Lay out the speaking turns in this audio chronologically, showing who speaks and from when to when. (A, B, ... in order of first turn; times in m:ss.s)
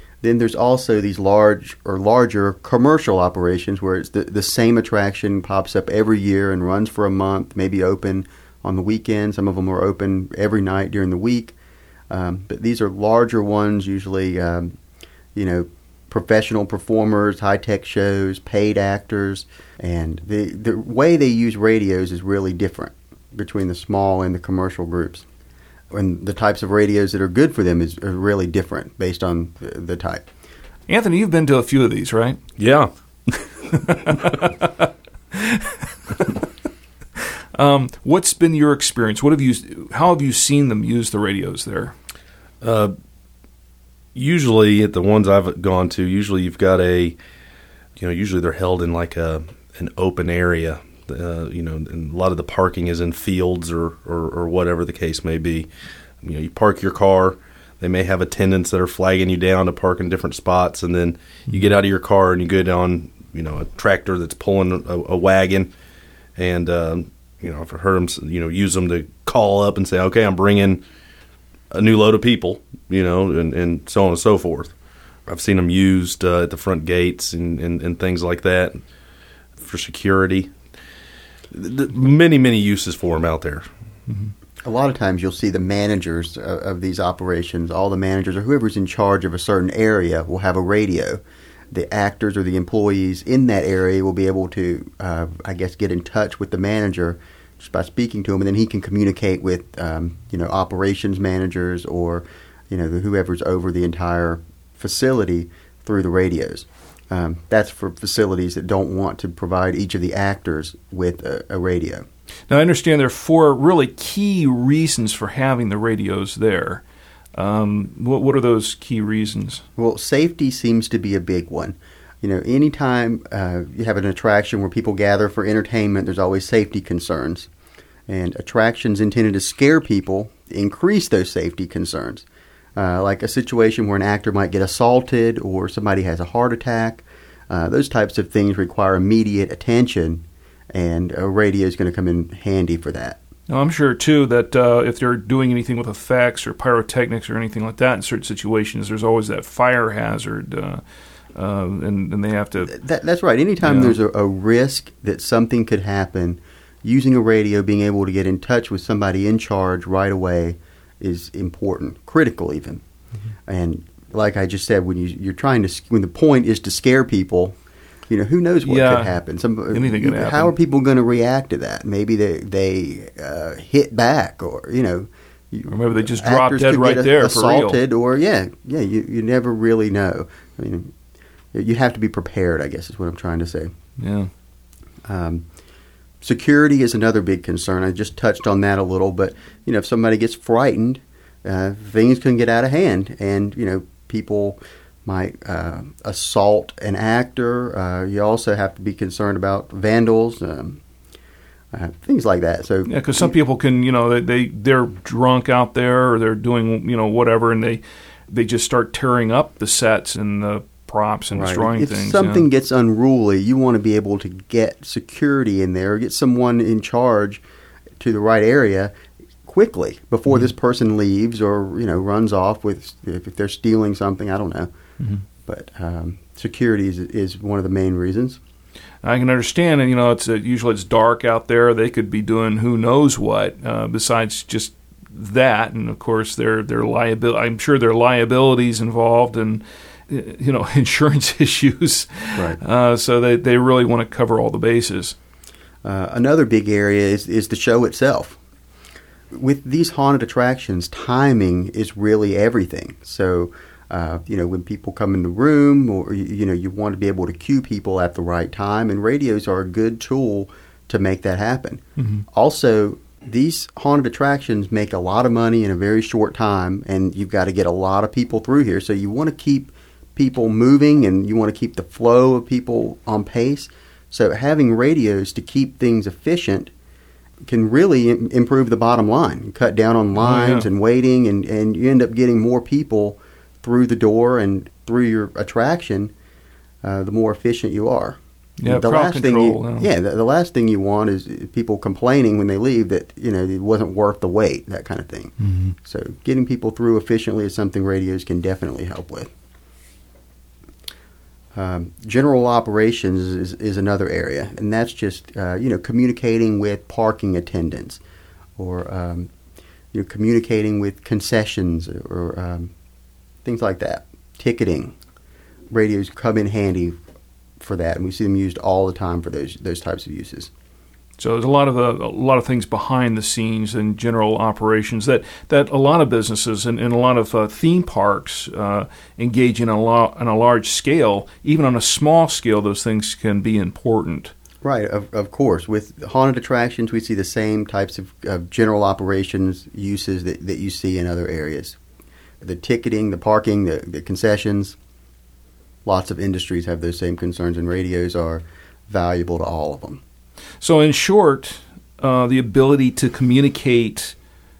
0:00.2-0:11.6 A
0:12.1-0:14.8 A
0:15.3-0:25.2 A
0:25.9-0:30.3 A
0:30.9-0:32.4 B
0:32.6-0:32.9 C
0:33.7-0:36.4 B
0:33.8-0:34.2 C
0:37.5-0:41.9 B
0:42.6-0:42.9 C
0:44.1-0:47.2 C
0:48.0-0:55.7 C
0:56.2-1:05.7 C
1:06.4-1:10.8 C
1:11.7-1:14.7 C
1:15.3-1:18.8 C
1:19.6-1:20.5 C
1:21.5-1:23.6 C
1:24.6-1:52.0 A
1:52.5-1:56.8 B
1:57.3-1:59.6 B
1:59.8-2:07.5 A
2:08.1-2:23.2 A
2:23.5-2:30.8 B
2:31.3-2:32.8 B
2:32.7-2:42.8 A
2:33.6-2:33.9 B
2:43.5-2:47.6 A
2:48.1-3:00.9 A
2:48.6-2:49.1 B
2:49.7-2:50.5 B
2:55.7-2:57.8 B
3:01.5-3:03.7 A
3:04.0-3:04.3 B
3:05.0-3:05.4 A
3:06.2-3:20.8 A
3:21.7-3:23.3 A
3:22.8-3:32.5 B
3:31.3-3:37.4 A
3:38.0-3:38.9 A
3:39.4-3:44.7 A
3:45.4-3:48.4 A
3:49.0-4:05.2 B
4:05.8-4:08.4 A
4:09.3-4:36.7 A
4:22.0-4:22.2 B
4:37.4-4:46.1 A
4:40.2-4:40.7 B
4:46.8-4:59.3 A
4:48.6-4:49.9 B
4:55.4-4:55.7 B
5:01.5-5:08.0 A
5:08.6-5:09.3 A
5:09.9-5:12.7 A
5:13.4-5:14.9 A
5:15.7-5:17.0 A
5:17.6-5:20.5 A
5:21.2-5:34.3 B
5:34.6-5:41.8 A
5:42.4-5:44.8 A
5:45.8-5:50.0 A
5:50.6-5:54.2 B